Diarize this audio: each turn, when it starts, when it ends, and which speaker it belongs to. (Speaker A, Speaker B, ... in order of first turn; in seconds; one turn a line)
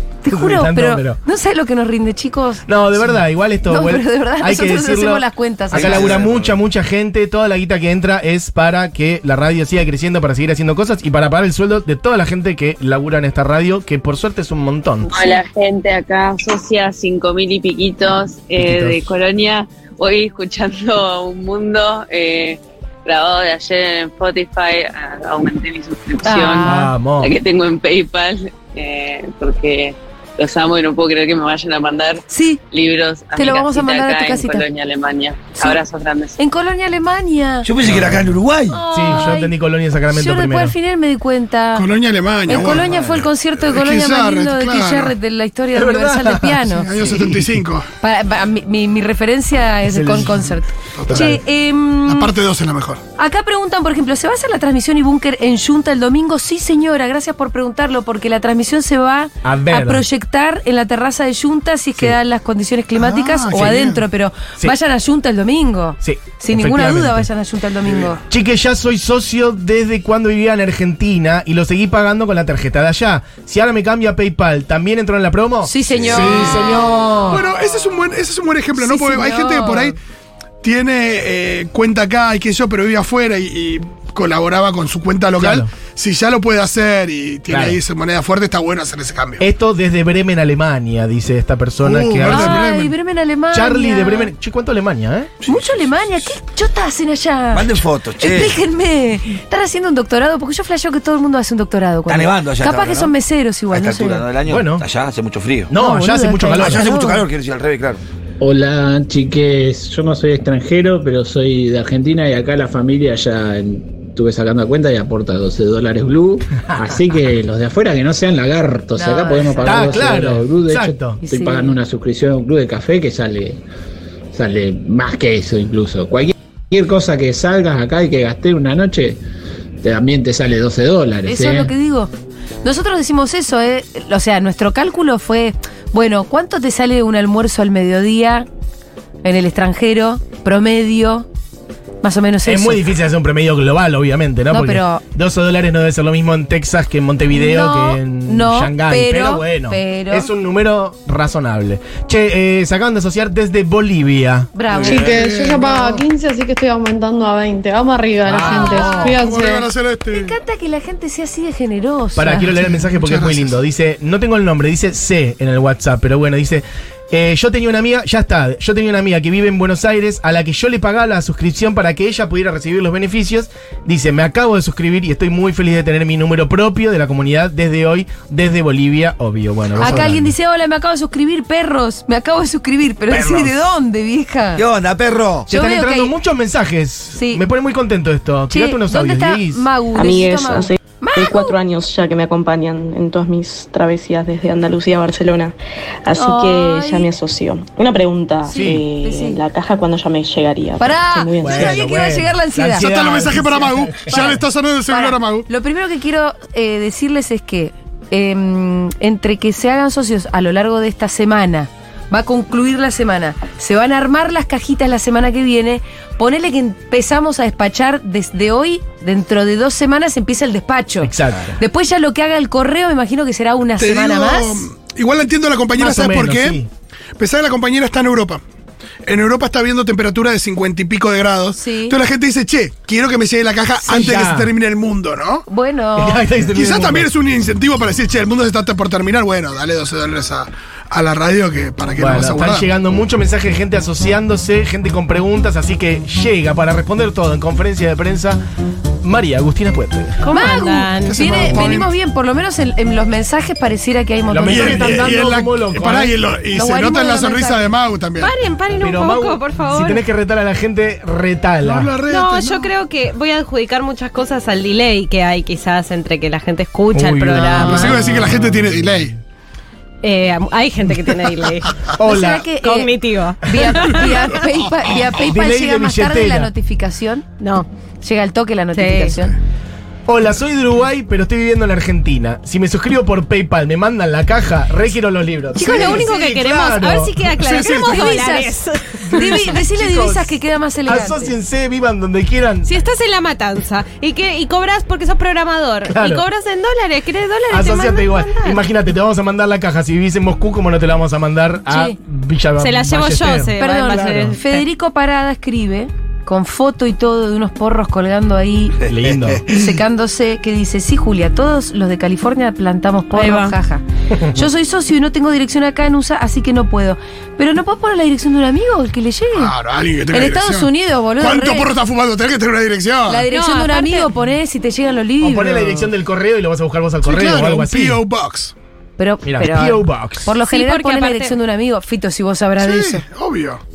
Speaker A: 0.2-2.6
Speaker B: 0.3-1.2
Speaker B: 2.7-15.2
Speaker A: 3.6-6.1
Speaker C: 5.7-6.5
Speaker D: 15.1-36.4
Speaker B: 18.6-19.0
Speaker A: 26.2-26.9
Speaker B: 26.6-27.3
Speaker A: 32.3-32.6
Speaker A: 33.3-34.6
Speaker A: 36.4-37.7
Speaker C: 37.6-38.8
Speaker B: 37.8-38.3
Speaker A: 38.7-39.5
Speaker B: 38.9-40.7
Speaker A: 40.1-41.9
Speaker E: 41.7-43.0
Speaker A: 42.5-46.9
Speaker E: 43.6-45.1
Speaker B: 45.7-47.5
Speaker E: 46.7-47.8
Speaker A: 48.0-52.3
Speaker B: 49.8-50.5
Speaker E: 51.0-51.4
Speaker E: 52.0-53.0
Speaker A: 53.2-68.2
Speaker B: 59.4-60.0
Speaker E: 63.0-64.0
Speaker B: 66.0-67.3
Speaker E: 67.8-68.2
Speaker B: 68.3-77.4
Speaker A: 75.6-77.4
Speaker E: 76.1-79.9
Speaker A: 78.8-79.9
Speaker E: 80.6-89.4
Speaker B: 85.4-85.7
Speaker B: 87.5-87.8
Speaker B: 89.4-92.7
Speaker E: 91.8-92.9
Speaker A: 92.2-94.3
Speaker B: 93.5-95.3
Speaker A: 95.4-104.2
Speaker C: 97.5-98.6
Speaker C: 102.1-103.1
Speaker C: 103.7-105.7
Speaker B: 104.5-104.8
Speaker B: 105.7-106.9
Speaker A: 105.7-107.2
Speaker C: 106.6-108.0
Speaker F: 108.4-123.6
Speaker B: 116.7-117.0
Speaker A: 119.0-120.0
Speaker B: 119.6-121.2
Speaker A: 121.2-121.7
Speaker F: 124.3-129.2
Speaker F: 129.8-131.7
Speaker A: 131.2-132.1
Speaker A: 132.6-138.5
Speaker A: 139.2-141.2
Speaker A: 142.0-142.8
Speaker B: 142.4-154.5
Speaker A: 144.5-145.0
Speaker A: 147.3-150.3
Speaker A: 154.5-155.1
Speaker E: 154.7-156.0
Speaker G: 154.9-159.7
Speaker B: 158.2-159.1
Speaker A: 158.2-159.2
Speaker E: 158.4-160.4
Speaker A: 160.1-162.6
Speaker B: 162.1-180.3
Speaker E: 162.8-163.5
Speaker A: 179.8-184.6
Speaker C: 183.1-183.5
Speaker C: 184.6-185.5
Speaker B: 185.5-189.7
Speaker A: 185.5-186.1
Speaker A: 187.1-187.4
Speaker A: 188.5-191.5
Speaker H: 189.9-201.9
Speaker A: 196.1-197.1
Speaker A: 198.4-199.4
Speaker B: 198.5-198.8
Speaker A: 200.8-203.5
Speaker B: 201.4-204.4
Speaker E: 202.8-205.5
Speaker A: 204.1-204.4
Speaker A: 204.9-224.6
Speaker B: 221.0-221.6
Speaker E: 223.8-226.6
Speaker B: 225.8-226.7
Speaker E: 227.2-228.4
Speaker E: 229.1-235.4
Speaker A: 231.5-232.0
Speaker B: 233.8-234.5
Speaker A: 235.5-236.3
Speaker B: 235.9-237.1
Speaker E: 236.5-242.7
Speaker B: 242.0-248.4
Speaker B: 249.0-250.2
Speaker I: 250.2-251.6
Speaker A: 250.2-255.3
Speaker E: 251.0-251.9
Speaker B: 254.3-256.2
Speaker E: 254.5-258.3
Speaker A: 256.5-257.7
Speaker I: 258.2-260.0
Speaker B: 258.8-261.9
Speaker E: 261.6-262.7
Speaker I: 262.1-267.9
Speaker B: 266.9-269.1
Speaker E: 267.5-269.1
Speaker A: 267.6-267.9
Speaker I: 270.0-271.7
Speaker B: 271.9-272.5
Speaker A: 272.0-277.3
Speaker I: 272.6-274.1
Speaker B: 275.2-276.5
Speaker I: 277.4-277.7
Speaker A: 278.0-279.3
Speaker I: 278.7-279.2
Speaker B: 280.1-287.2
Speaker I: 285.5-289.5
Speaker E: 285.6-286.0
Speaker E: 287.3-288.1
Speaker A: 287.8-291.3
Speaker B: 289.0-292.8
Speaker I: 292.6-298.6
Speaker B: 295.9-296.2
Speaker B: 297.5-304.4
Speaker A: 301.7-301.9
Speaker I: 302.6-304.6
Speaker A: 303.6-308.8
Speaker B: 308.9-309.4
Speaker A: 309.5-319.5
Speaker I: 313.1-313.6
Speaker B: 314.1-314.4
Speaker E: 319.3-323.2
Speaker A: 320.1-321.7
Speaker A: 323.1-325.9
Speaker I: 323.3-324.1
Speaker B: 325.2-328.0
Speaker E: 327.0-328.5
Speaker A: 329.0-333.0
Speaker B: 329.2-330.3
Speaker I: 330.4-331.4
Speaker E: 332.6-333.6